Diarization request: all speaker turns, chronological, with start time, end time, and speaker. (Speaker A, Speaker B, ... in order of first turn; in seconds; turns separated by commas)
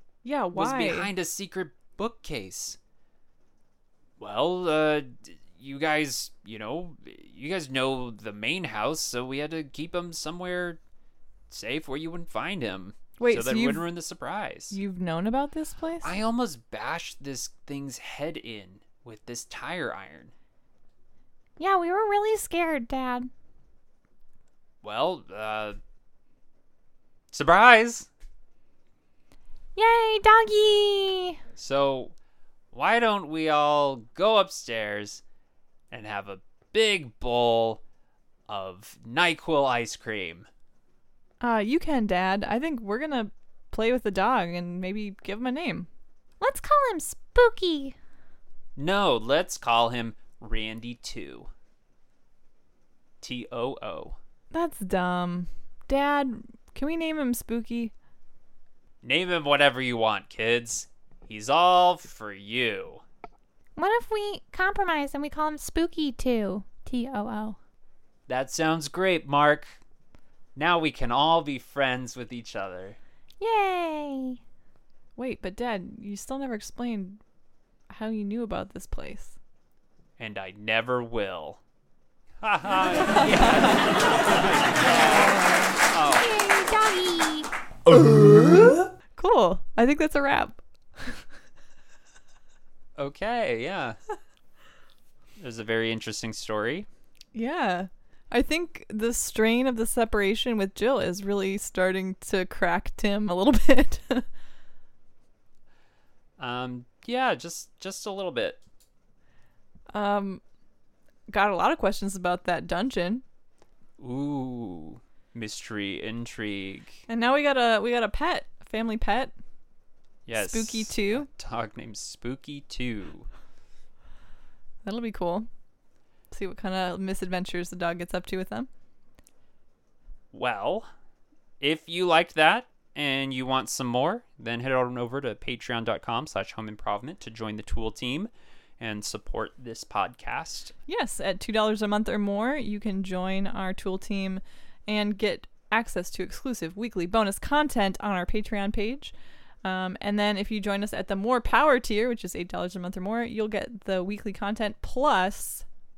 Speaker A: 0.2-1.1, Speaker B: 0.5-2.8, Speaker B: 4.2-10.8, Speaker B: 11.5-14.8, Speaker A: 13.2-13.9, Speaker A: 14.7-16.1, Speaker B: 16.0-20.3, Speaker C: 21.6-23.3, Speaker B: 24.8-25.8, Speaker B: 27.3-28.1, Speaker C: 29.8-31.4, Speaker B: 31.6-32.1, Speaker B: 32.7-35.2, Speaker B: 35.9-37.8, Speaker B: 38.5-40.5, Speaker A: 41.4-45.9, Speaker C: 46.4-48.0, Speaker B: 48.8-51.5, Speaker B: 53.2-54.2, Speaker A: 54.5-57.9, Speaker B: 59.0-63.0, Speaker C: 63.8-67.6, Speaker B: 68.3-69.8, Speaker B: 70.5-73.0, Speaker C: 73.4-74.4, Speaker A: 75.2-77.2, Speaker A: 77.9-79.4, Speaker B: 80.2-81.6, Speaker B: 82.4-86.3, Speaker A: 82.8-84.0, Speaker A: 84.9-85.8, Speaker C: 86.1-87.5, Speaker A: 89.2-91.2, Speaker B: 93.0-94.0, Speaker B: 95.4-96.9, Speaker A: 97.3-104.3, Speaker B: 106.4-108.6, Speaker A: 109.9-110.4, Speaker A: 111.3-113.2, Speaker B: 114.0-117.0, Speaker A: 117.1-119.3, Speaker B: 120.3-123.3, Speaker A: 120.3-121.3, Speaker A: 124.8-125.5, Speaker A: 126.3-128.7, Speaker B: 130.3-130.9, Speaker B: 131.6-140.7, Speaker A: 140.9-149.1, Speaker A: 149.6-155.7